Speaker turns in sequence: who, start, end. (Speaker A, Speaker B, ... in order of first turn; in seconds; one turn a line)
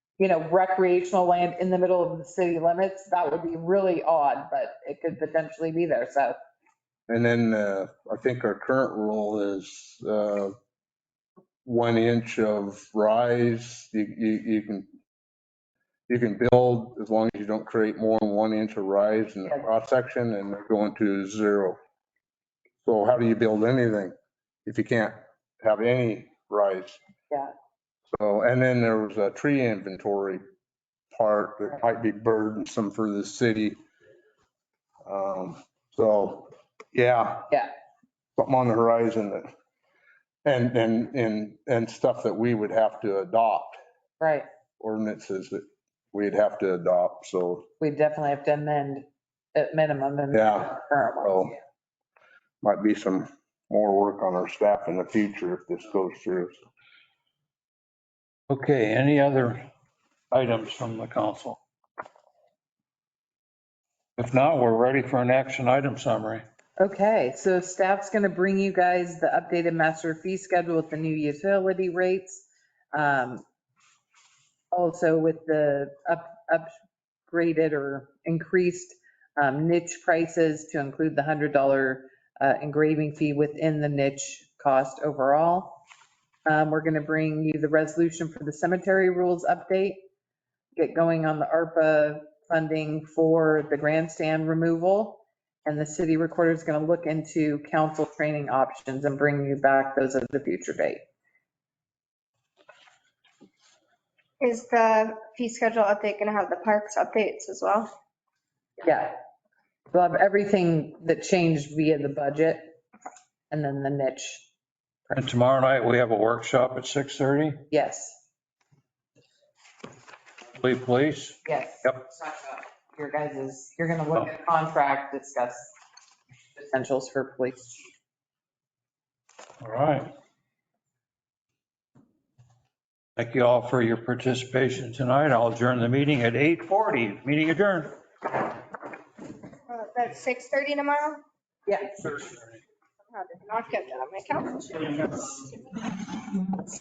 Speaker A: 0.2-6.3
Speaker B: 7.1-10.5
Speaker B: 11.6-14.9
Speaker B: 16.1-21.8
Speaker B: 22.8-24.1
Speaker B: 24.6-27.0
Speaker B: 28.1-30.4
Speaker B: 31.1-33.8
Speaker B: 35.0-37.5
Speaker B: 38.4-39.5
Speaker B: 40.4-43.8
Speaker A: 44.2-44.5
Speaker B: 44.8-47.7
Speaker A: 47.8-51.6
Speaker B: 50.3-51.5
Speaker B: 52.6-56.6
Speaker C: 58.5-59.6
Speaker C: 60.3-61.6
Speaker C: 64.2-66.4
Speaker A: 66.8-73.4
Speaker A: 74.7-76.7
Speaker A: 77.3-85.8
Speaker A: 86.5-90.0
Speaker A: 90.8-101.0
Speaker D: 104.4-107.9
Speaker A: 108.8-109.1
Speaker A: 109.9-112.7
Speaker A: 113.5-114.5
Speaker C: 115.1-117.6
Speaker A: 117.7-118.2
Speaker C: 120.6-122.0
Speaker A: 121.4-125.7
Speaker A: 126.5-127.9
Speaker C: 129.6-130.1
Speaker C: 133.2-138.0
Speaker D: 139.7-141.2
Speaker A: 141.7-142.1
Speaker D: 143.1-145.8